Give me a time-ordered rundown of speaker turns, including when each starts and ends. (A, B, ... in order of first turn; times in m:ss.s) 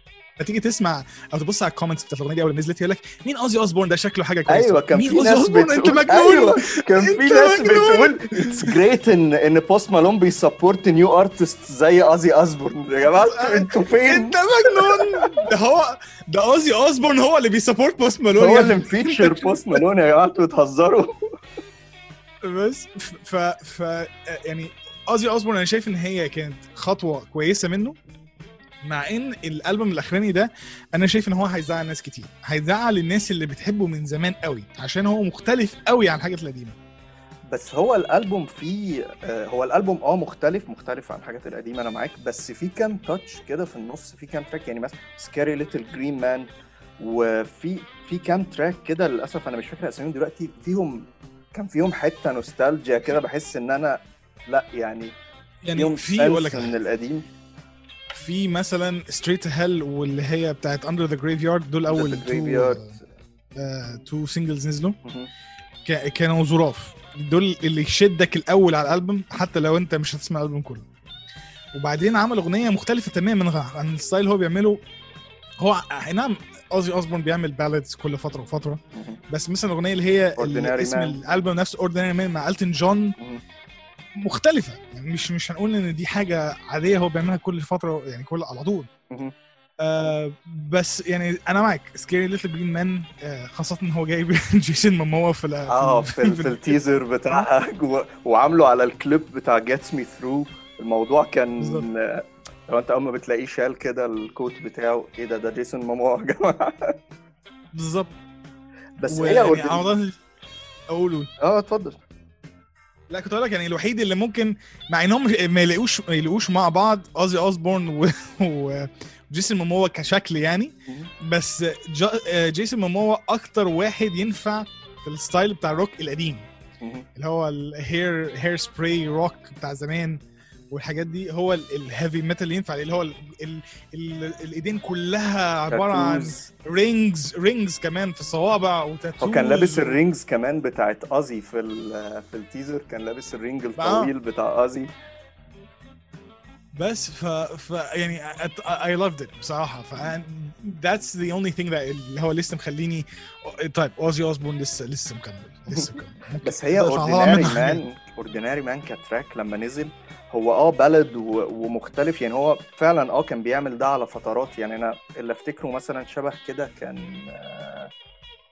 0:00.4-0:08.7 A
0:04.5-0:15.2 B
0:13.2-0:19.8 A
0:18.4-0:21.1 B
0:22.4-0:28.0 A
0:28.8-0:36.8 A
0:37.5-0:55.1 B
0:55.6-0:56.8 A
0:55.7-0:57.2 B
0:58.1-1:03.0 A
1:01.9-1:02.9 B
1:03.6-1:05.0 A
1:05.0-1:05.3 B
1:05.8-1:10.9 A
1:11.7-1:14.8 A
1:15.6-1:23.2 A
1:18.9-1:19.2 B
1:20.4-1:21.2 B
1:24.2-1:28.9 A
1:29.1-1:29.3 B
1:29.8-1:36.8 A
1:35.7-1:46.9 B
1:41.6-1:41.9 A
1:47.7-1:48.2 A
1:49.0-1:49.8 B
1:49.1-1:50.2 A
1:50.9-1:51.3 A
1:51.4-1:52.0 B
1:53.1-2:06.5 A
2:06.8-2:07.0 B
2:07.2-2:20.0 A
2:15.7-2:16.5 B
2:19.2-2:24.9 B
2:23.8-2:24.1 A
2:26.7-2:37.8 A
2:35.7-2:47.9 B